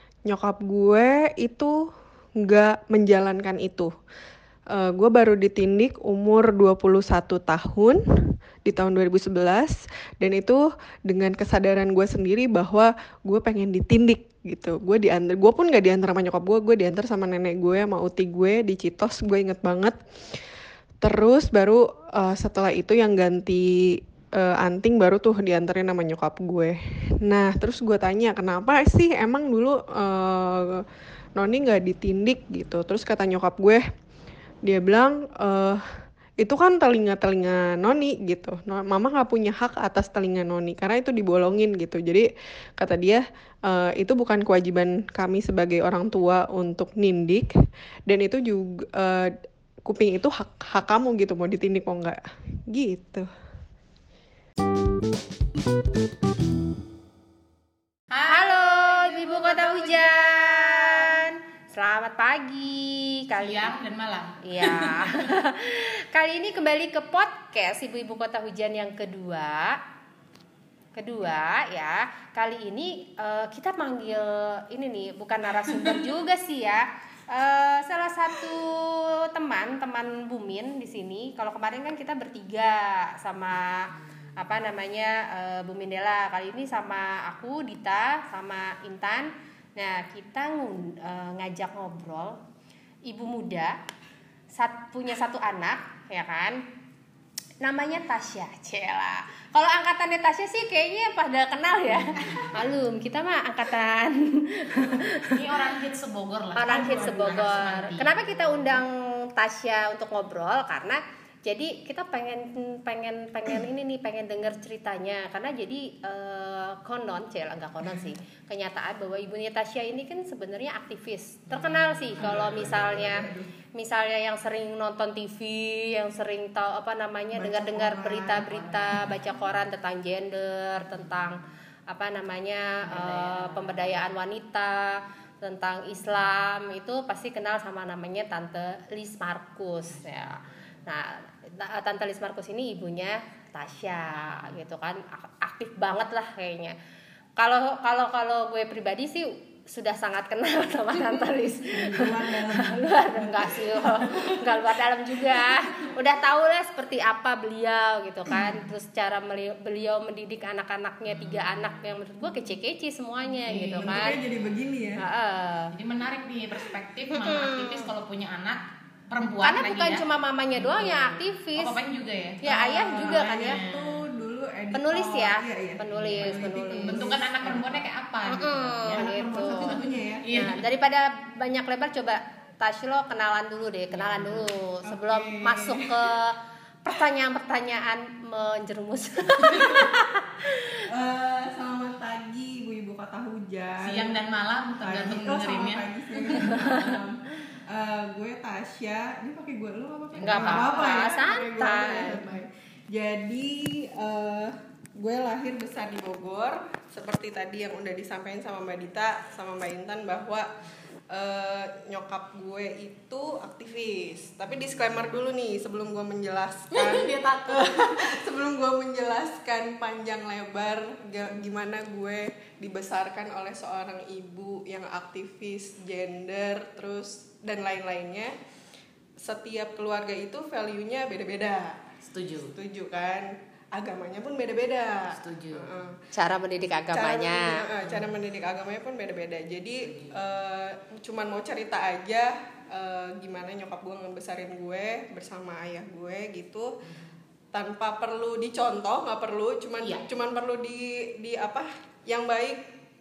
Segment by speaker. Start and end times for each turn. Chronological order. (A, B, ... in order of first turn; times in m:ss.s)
0:00.2-0:03.9 A
0:04.7-0:08.0 A
0:08.6-0:20.0 A
0:21.0-0:33.8 A
0:34.6-0:35.9 A
0:36.4-0:47.5 A
0:48.1-0:53.3 A
0:58.1-1:01.1 B
0:58.3-1:03.7 C
1:03.4-1:05.3 B
1:04.4-1:09.8 C
1:11.0-1:32.4 C
1:33.1-1:33.8 C
1:34.5-1:36.6 C
1:37.6-1:45.6 C
1:45.3-1:48.8 B
1:46.6-2:26.8 C
1:46.7-1:47.6 A
2:01.5-2:02.5 B
2:02.2-2:03.5 A
2:07.4-2:09.1 A
2:12.8-2:14.0 B
2:27.4-2:44.2 C
2:31.7-2:35.9 A
2:41.1-2:41.5 B
2:43.5-2:44.4 B
2:43.7-2:45.0 A
2:45.0-2:45.7 C
2:45.7-2:50.0 B
2:47.1-2:47.8 C
2:49.4-2:51.8 C
2:50.5-2:52.4 B
2:52.4-2:53.6 C
2:52.4-2:57.8 A
2:52.9-2:54.0 B
2:54.7-2:57.1 C
2:55.9-3:00.6 B
2:58.3-2:59.8 C
2:58.9-3:00.3 A
3:00.3-3:10.8 C
3:03.9-3:04.5 B
3:04.8-3:06.1 A
3:09.5-3:09.9 A
3:10.9-3:14.2 A
3:13.8-3:17.0 B
3:14.8-3:30.5 A
3:20.2-3:20.9 B
3:20.2-3:22.2 C
3:31.1-3:48.3 A
3:36.7-3:38.2 B
3:49.2-3:51.8 A
3:52.0-3:52.5 B
3:52.5-3:56.0 A
3:55.1-3:55.8 B
3:56.1-3:57.6 C
3:56.9-4:06.7 A
3:57.8-3:58.1 B
3:59.8-4:00.2 B
4:06.8-4:07.1 B
4:07.5-4:12.6 A